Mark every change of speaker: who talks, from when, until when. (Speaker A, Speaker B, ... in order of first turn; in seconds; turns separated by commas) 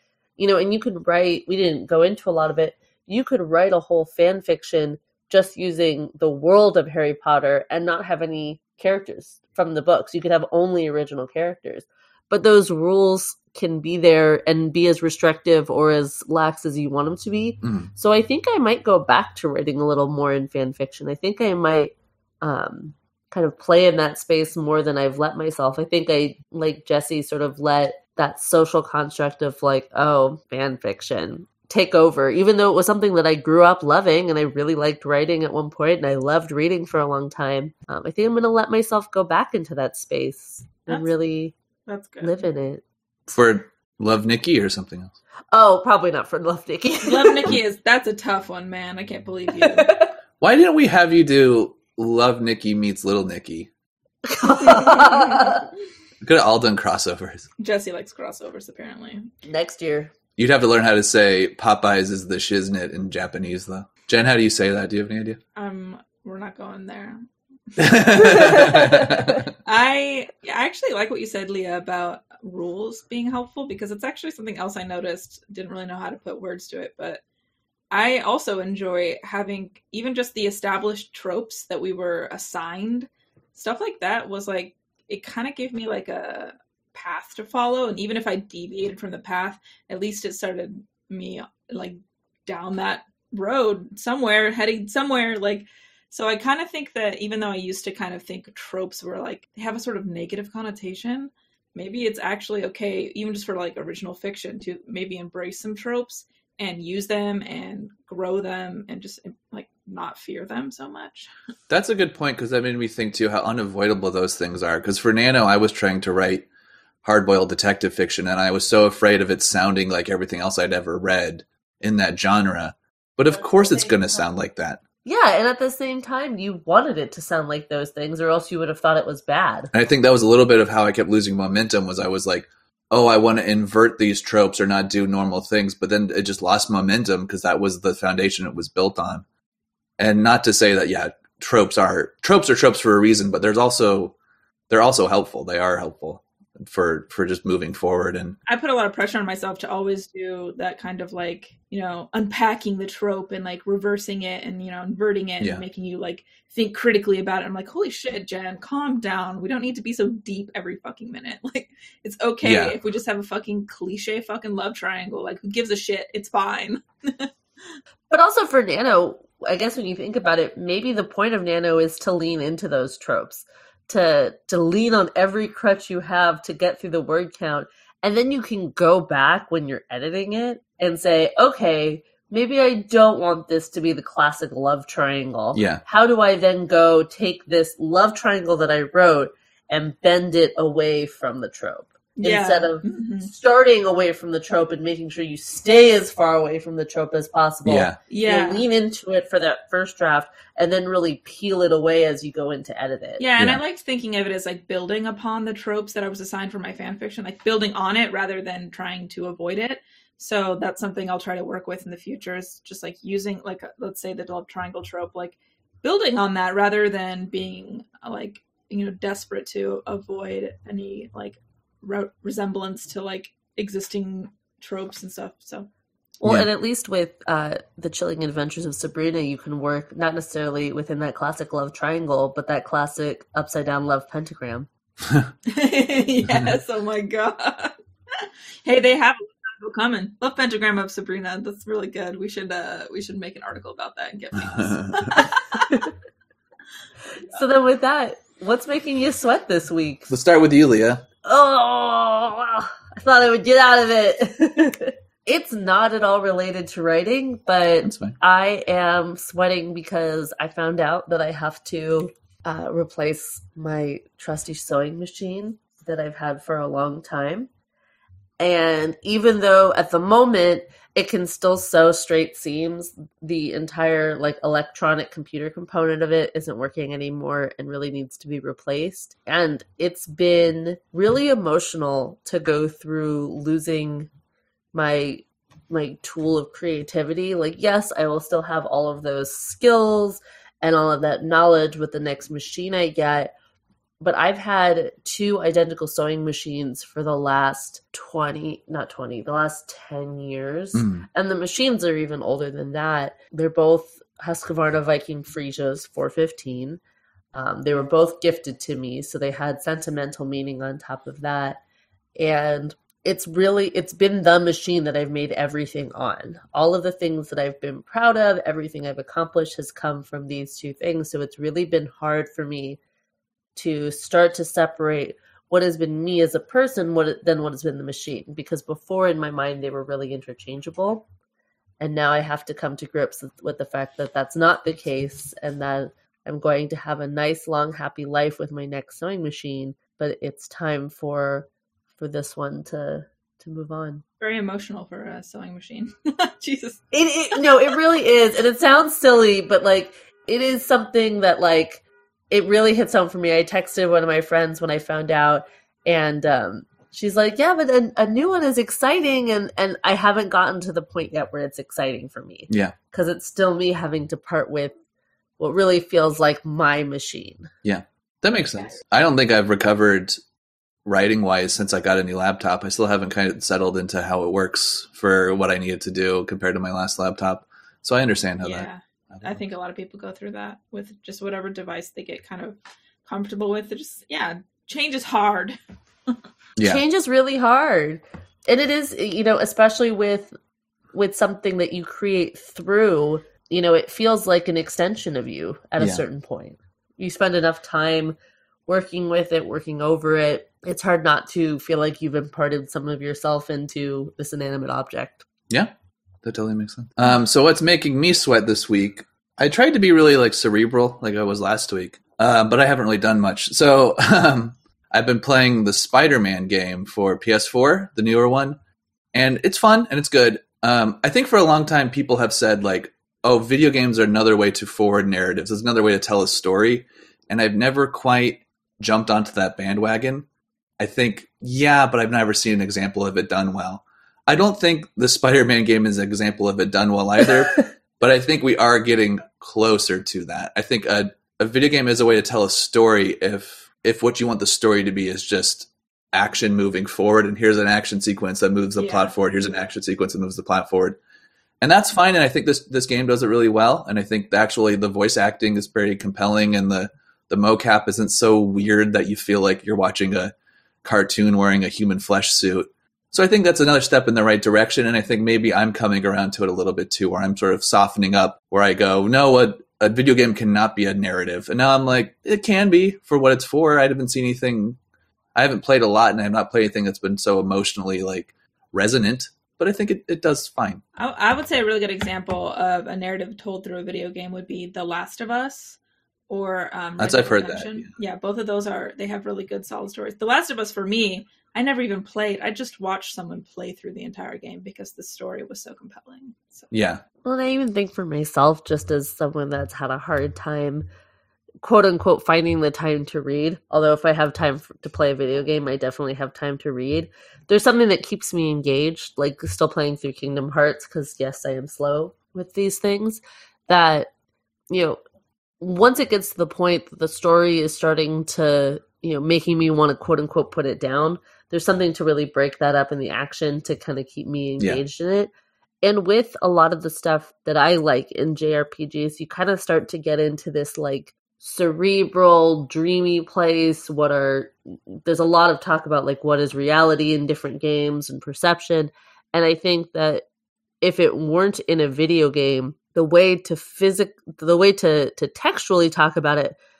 Speaker A: 0.4-41.5, Speaker B: 17.6-17.9, Speaker C: 40.9-41.1, Speaker C: 41.9-42.4, Speaker A: 42.2-42.8, Speaker B: 43.3-45.1, Speaker A: 45.5-47.5, Speaker C: 47.0-49.9, Speaker A: 49.6-50.1, Speaker B: 50.4-53.7, Speaker A: 54.3-55.6, Speaker C: 54.7-55.5, Speaker B: 56.2-57.5, Speaker C: 57.6-59.3, Speaker A: 59.4-60.1, Speaker B: 60.4-65.4, Speaker C: 65.5-67.2, Speaker B: 67.8-69.5, Speaker C: 67.8-68.5, Speaker A: 68.2-69.4, Speaker C: 69.6-77.2, Speaker C: 77.9-111.3, Speaker B: 111.7-116.5, Speaker B: 117.0-124.8, Speaker A: 123.3-124.2, Speaker A: 125.0-129.7, Speaker B: 129.7-139.2, Speaker B: 140.0-144.1, Speaker B: 144.7-148.4, Speaker C: 148.5-167.3, Speaker B: 162.4-162.8, Speaker A: 168.1-203.2, Speaker B: 185.5-185.8, Speaker C: 192.2-193.3, Speaker B: 197.6-198.0, Speaker C: 198.1-198.6, Speaker C: 203.2-225.7, Speaker A: 226.2-234.7, Speaker C: 235.4-245.8, Speaker B: 244.3-245.2, Speaker A: 247.3-250.1, Speaker B: 250.1-251.0, Speaker A: 251.2-267.5, Speaker B: 257.8-258.2, Speaker A: 268.4-284.1, Speaker A: 284.7-293.3, Speaker A: 294.0-306.8, Speaker B: 300.7-301.0, Speaker A: 307.3-311.6, Speaker A: 312.1-322.8, Speaker A: 323.5-331.1, Speaker A: 331.8-344.0, Speaker C: 344.2-347.4, Speaker A: 346.9-364.7, Speaker B: 362.5-362.7, Speaker A: 365.4-367.5, Speaker B: 367.6-370.2, Speaker B: 370.9-379.4, Speaker C: 378.4-385.6, Speaker B: 386.6-386.8, Speaker A: 386.6-390.3, Speaker A: 390.9-405.3, Speaker B: 395.8-396.0, Speaker B: 406.2-418.6, Speaker B: 419.1-430.2, Speaker B: 430.8-451.0, Speaker C: 448.8-449.1, Speaker B: 451.6-474.8, Speaker B: 475.3-480.8, Speaker C: 480.9-496.7, Speaker B: 487.0-487.9, Speaker B: 496.7-497.0, Speaker A: 497.2-500.9, Speaker A: 501.6-514.1, Speaker A: 514.7-515.0, Speaker A: 515.6-540.2, Speaker A: 540.8-546.5